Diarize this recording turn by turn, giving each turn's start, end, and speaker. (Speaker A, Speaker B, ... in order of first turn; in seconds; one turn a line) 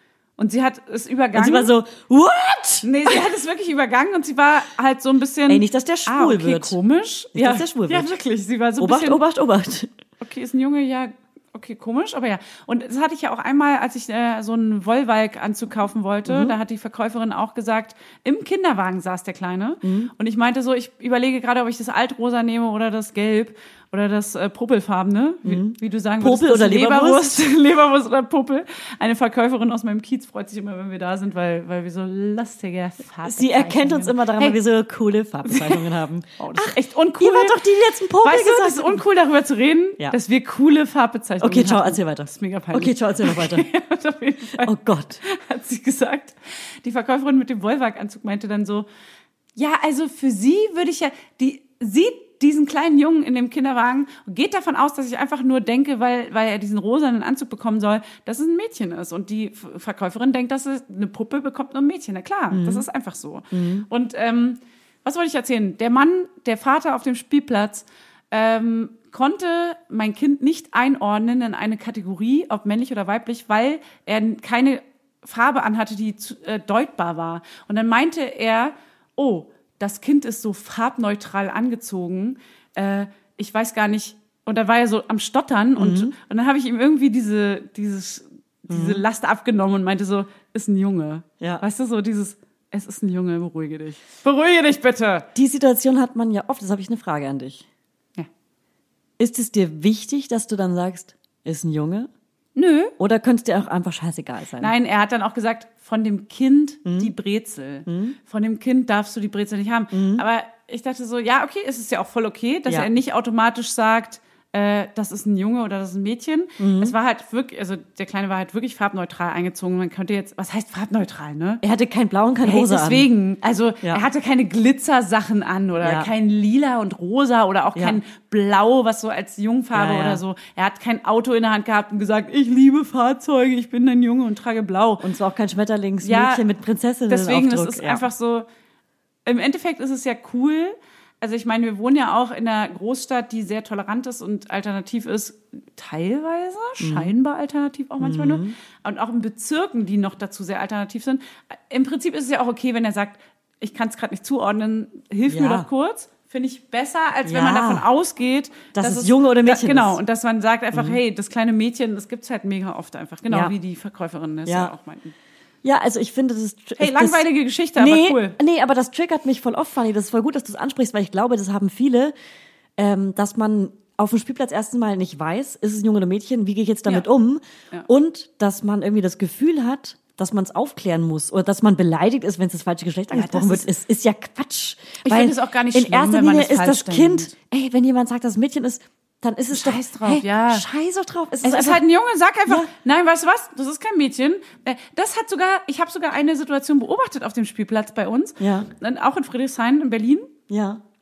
Speaker A: 0.4-1.7
Speaker B: 1.3-3.2
Speaker A: 2.8-9.2
Speaker B: 5.5-6.8
Speaker B: 7.3-8.1
Speaker B: 8.8-9.9
Speaker A: 10.2-34.6
Speaker B: 16.3-16.6
Speaker B: 19.8-20.1
Speaker B: 25.4-27.4
Speaker B: 33.2-39.0
Speaker A: 35.5-35.8
Speaker A: 36.4-37.6
Speaker A: 38.2-44.7
Speaker B: 41.4-43.7
Speaker B: 44.6-45.2
Speaker A: 45.2-48.9
Speaker A: 49.6-95.3
Speaker B: 62.5-62.9
Speaker B: 63.5-63.9
Speaker B: 85.8-86.1
Speaker B: 88.7-89.0
Speaker B: 95.3-97.7
Speaker B: 99.2-102.1
Speaker A: 102.6-102.9
Speaker B: 103.0-104.7
Speaker A: 104.6-121.6
Speaker B: 106.8-107.1
Speaker B: 107.9-108.2
Speaker B: 109.9-110.2
Speaker B: 116.6-117.0
Speaker B: 121.6-123.1
Speaker A: 122.4-135.1
Speaker B: 125.8-126.1
Speaker B: 129.7-130.2
Speaker B: 135.0-138.1
Speaker A: 136.0-136.4
Speaker A: 137.1-138.5
Speaker A: 139.3-165.2
Speaker B: 146.8-147.1
Speaker B: 148.0-148.6
Speaker B: 155.3-155.7
Speaker B: 157.2-157.9
Speaker B: 158.7-160.0
Speaker B: 160.7-161.0
Speaker B: 163.3-163.6
Speaker B: 164.5-164.7
Speaker B: 165.6-172.1
Speaker A: 166.8-168.4
Speaker B: 172.8-191.8
Speaker A: 183.1-183.7
Speaker A: 185.0-187.3
Speaker A: 189.5-190.7
Speaker A: 191.4-200.3
Speaker B: 198.4-198.7
Speaker B: 200.5-200.8